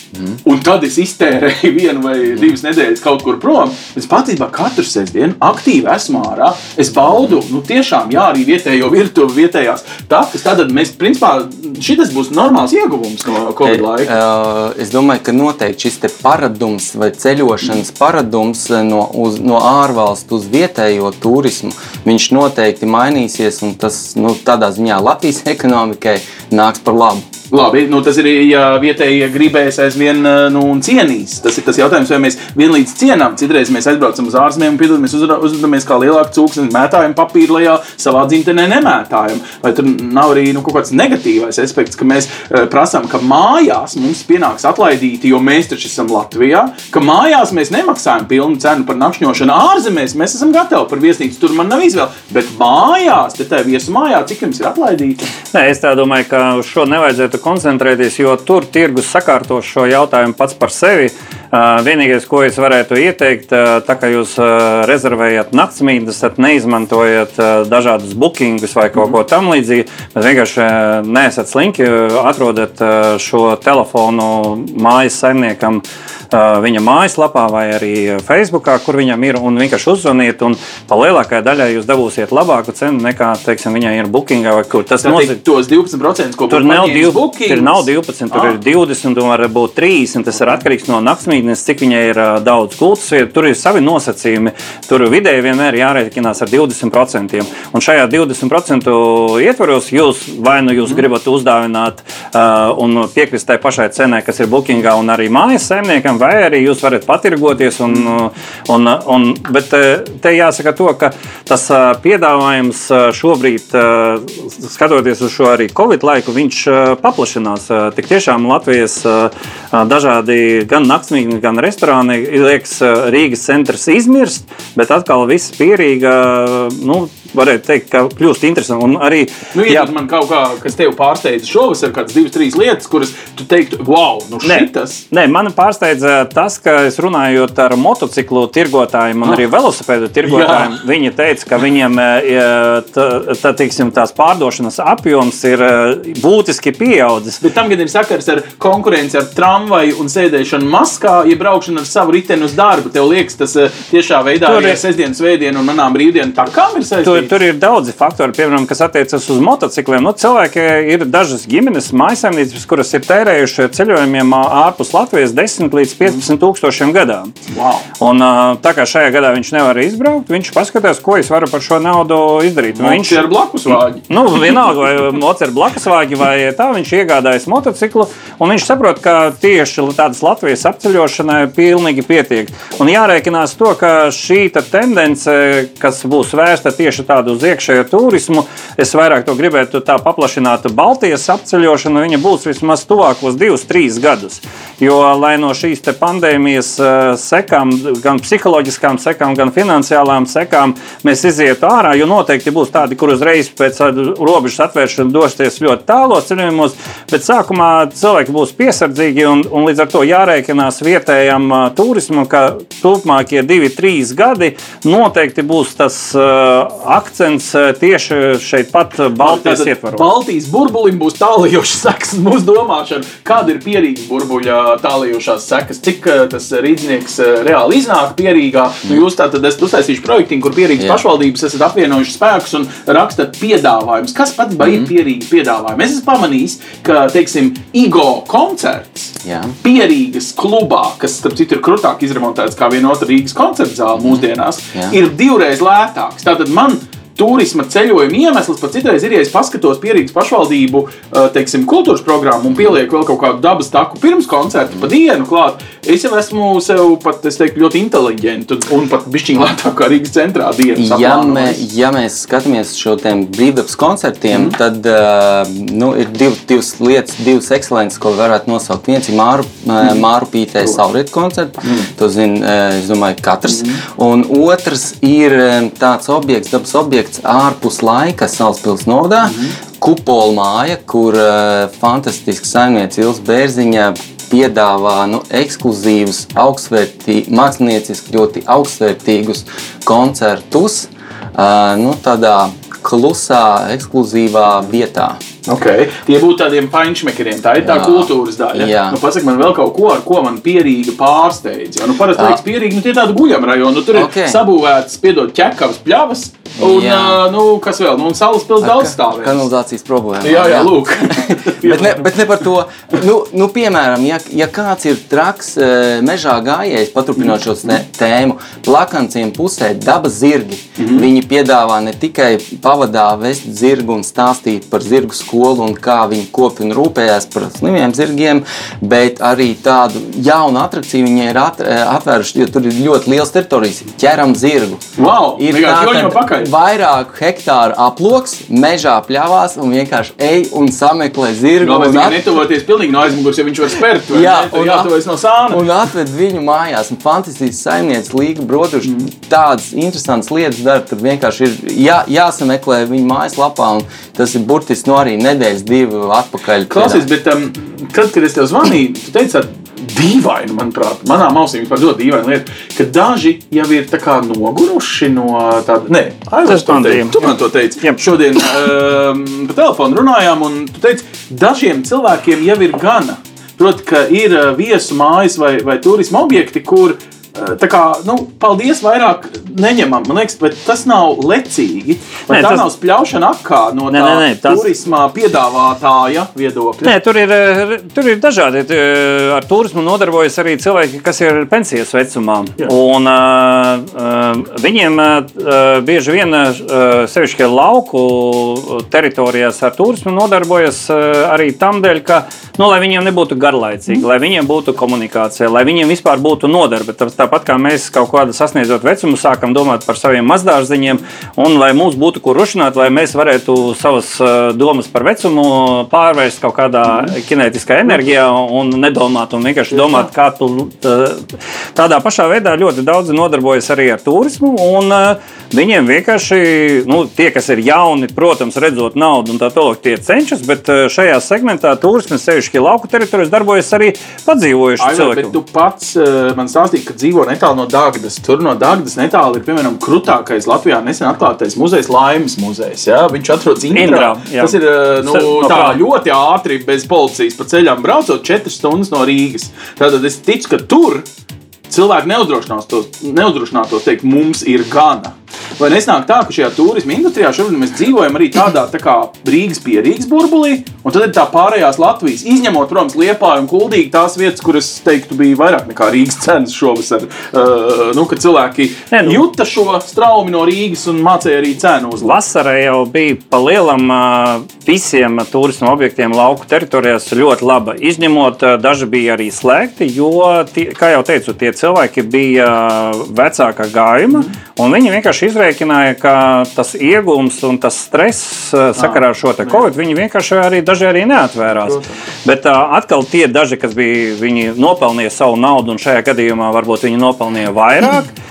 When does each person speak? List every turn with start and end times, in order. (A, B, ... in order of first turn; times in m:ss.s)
0:00.4-0:14.1 A
0:13.6-0:27.3 B
0:27.5-0:55.2 A
0:55.5-1:25.4 C
1:25.0-1:28.6 A
1:26.5-2:09.9 C
2:09.5-2:15.0 A
2:14.4-2:27.4 C
2:20.2-2:20.8 A
2:27.4-2:37.3 A
2:34.4-2:34.8 C
2:37.0-2:47.3 C
2:47.5-2:47.8 A
2:48.0-2:53.3 C
2:52.8-2:54.1 A
2:54.1-3:40.1 C
3:39.2-4:21.6 A
3:54.6-3:54.9 B
3:59.2-3:59.5 B
4:04.0-4:04.9 B
4:20.8-4:55.2 B
4:31.6-4:31.9 A
4:33.5-4:33.8 A
4:39.2-4:39.5 A
4:55.5-5:09.4 A
4:57.6-4:59.0 B
5:03.9-5:04.4 B
5:06.6-5:07.2 B
5:08.6-5:34.8 B
5:10.2-5:12.1 A
5:20.8-5:21.0 A
5:35.0-5:36.5 A
5:35.4-5:42.2 B
5:41.6-5:45.6 A
5:44.1-5:44.9 B
5:45.5-5:57.0 B
5:56.7-6:26.9 A
6:06.4-6:08.0 C
6:22.3-6:22.6 C
6:23.9-6:24.7 C
6:26.8-7:15.4 C
6:59.7-7:00.0 A
7:14.8-7:31.0 A
7:23.7-7:25.8 C
7:31.7-7:52.1 A
7:48.9-7:49.2 C
7:52.0-8:18.1 C
8:08.8-8:09.6 A
8:11.6-8:12.0 A